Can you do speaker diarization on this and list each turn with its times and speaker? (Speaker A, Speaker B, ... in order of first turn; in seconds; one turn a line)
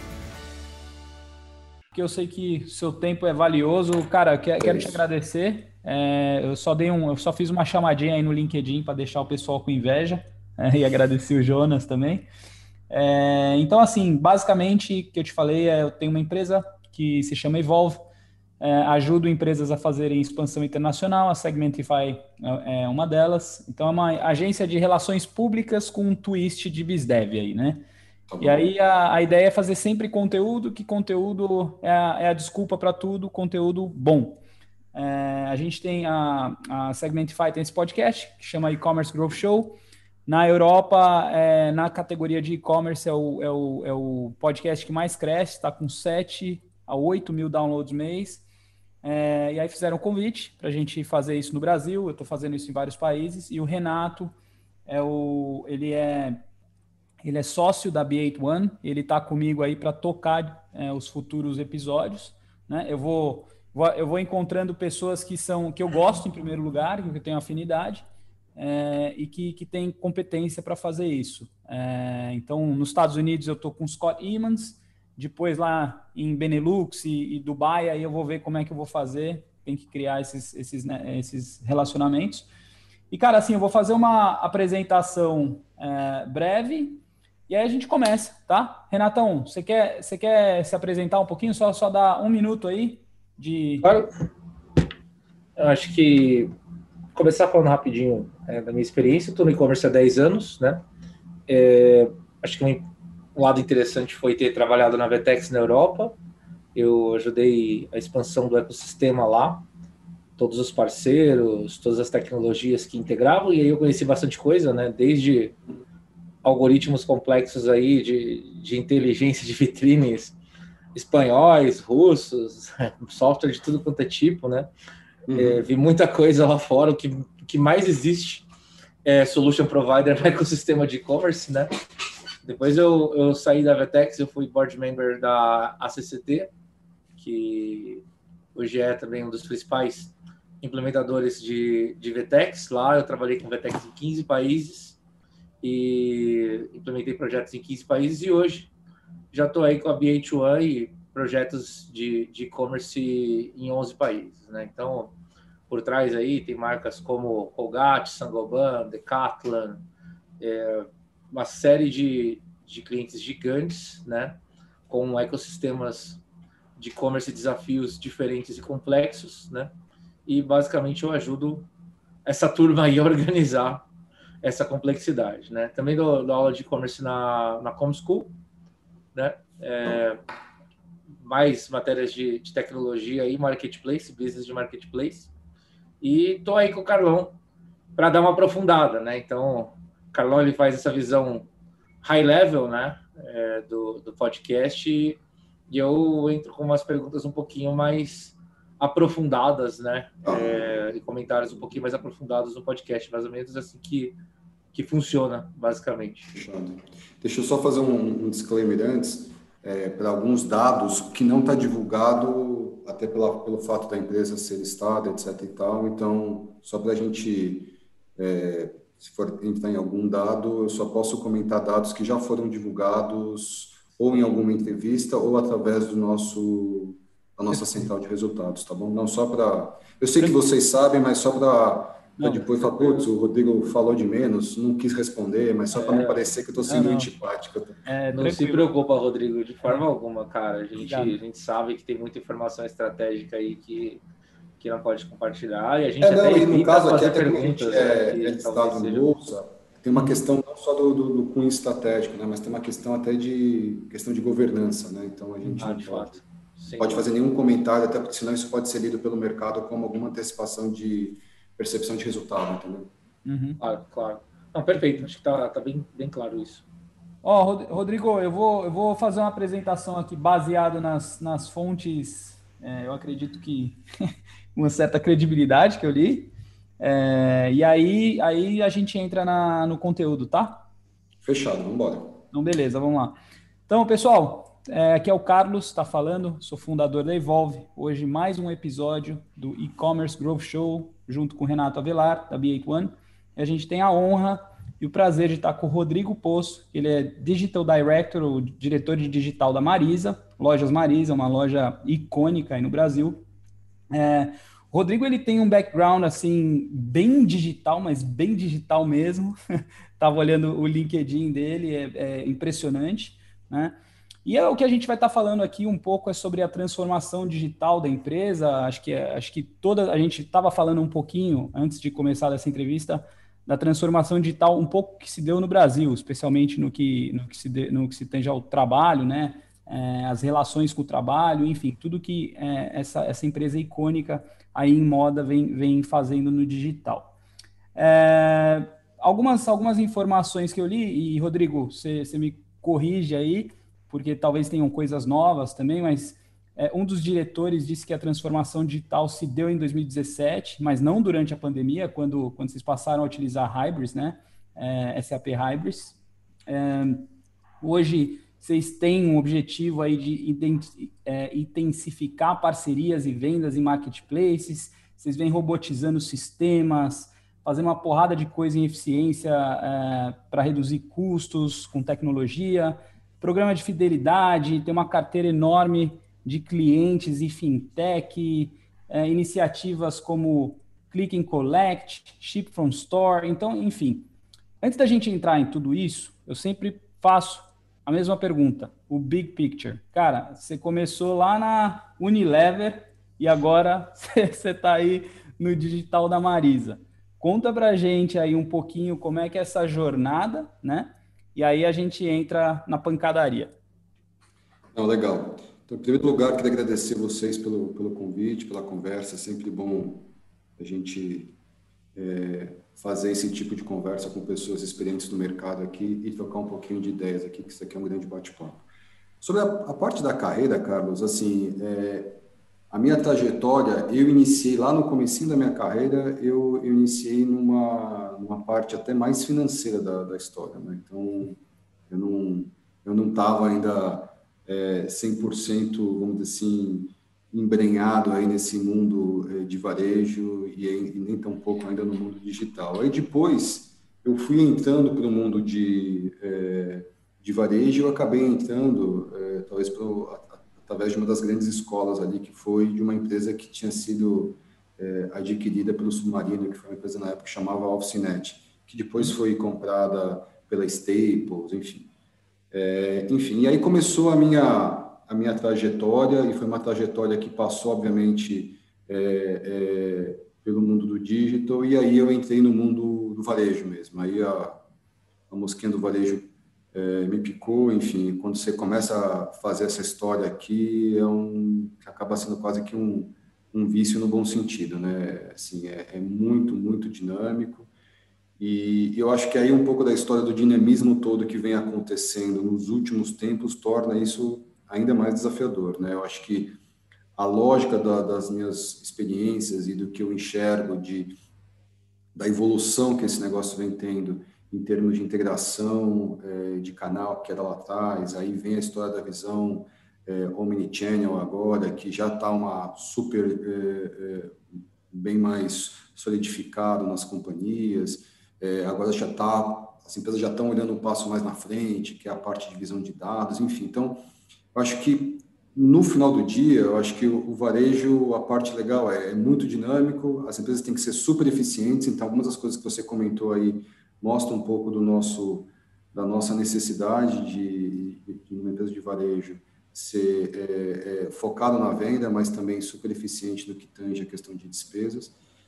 Speaker A: 1.9-12.2
Speaker B: 4.6-5.0
Speaker A: 12.9-18.0
Speaker A: 18.6-27.8
Speaker B: 28.3-28.7
Speaker A: 28.4-34.4
Speaker A: 34.9-39.8
Speaker A: 40.3-48.4
Speaker A: 49.0-54.3
Speaker A: 54.9-56.4
Speaker A: 57.2-68.0
Speaker A: 68.5-82.5
Speaker A: 83.1-93.9
Speaker C: 93.8-94.1
Speaker C: 95.6-96.5
Speaker C: 97.1-100.8
Speaker C: 101.5-106.2
Speaker C: 106.7-109.7
Speaker C: 110.4-115.6
Speaker C: 116.4-120.3
Speaker C: 120.9-124.7
Speaker B: 125.3-125.6
Speaker C: 125.3-128.4
Speaker C: 129.0-131.7
Speaker C: 132.4-136.5
Speaker C: 137.2-138.0
Speaker C: 138.5-145.0
Speaker C: 145.6-148.7
Speaker C: 149.3-155.2
Speaker C: 155.7-159.8
Speaker C: 160.4-166.2
Speaker C: 166.8-169.7
Speaker C: 170.2-171.7
Speaker C: 172.2-173.9
Speaker C: 174.4-178.3
Speaker C: 179.1-180.2
Speaker C: 181.2-185.3
Speaker C: 186.0-187.3
Speaker C: 187.9-191.5
Speaker C: 192.0-204.2
Speaker B: 200.2-200.8
Speaker C: 204.7-206.4
Speaker B: 206.3-237.8
Speaker A: 227.5-227.8
Speaker A: 232.2-232.5
Speaker A: 235.7-236.1
Speaker C: 235.8-236.2
Speaker A: 236.7-237.1
Speaker A: 237.8-238.7
Speaker C: 238.1-244.0
Speaker A: 240.8-241.1
Speaker C: 244.6-249.1
Speaker B: 246.0-256.2
Speaker C: 255.6-257.1
Speaker B: 256.8-262.9
Speaker A: 263.2-263.6
Speaker C: 263.6-266.6
Speaker A: 267.2-273.8
Speaker A: 274.5-280.6
Speaker B: 281.2-282.2
Speaker A: 282.3-283.1
Speaker A: 283.7-303.2
Speaker A: 303.9-309.3
Speaker A: 310.0-337.1
Speaker A: 337.8-355.9
Speaker A: 356.5-357.1
Speaker A: 357.6-384.1
Speaker A: 384.6-403.5
Speaker B: 404.7-411.3
Speaker B: 411.9-418.6
Speaker B: 419.2-422.2
Speaker B: 422.7-431.4
Speaker B: 431.9-461.9
Speaker B: 462.5-474.6
Speaker B: 475.3-487.7
Speaker B: 488.4-496.6
Speaker B: 497.2-501.2
Speaker B: 502.1-514.4
Speaker B: 514.9-524.0
Speaker B: 524.5-545.1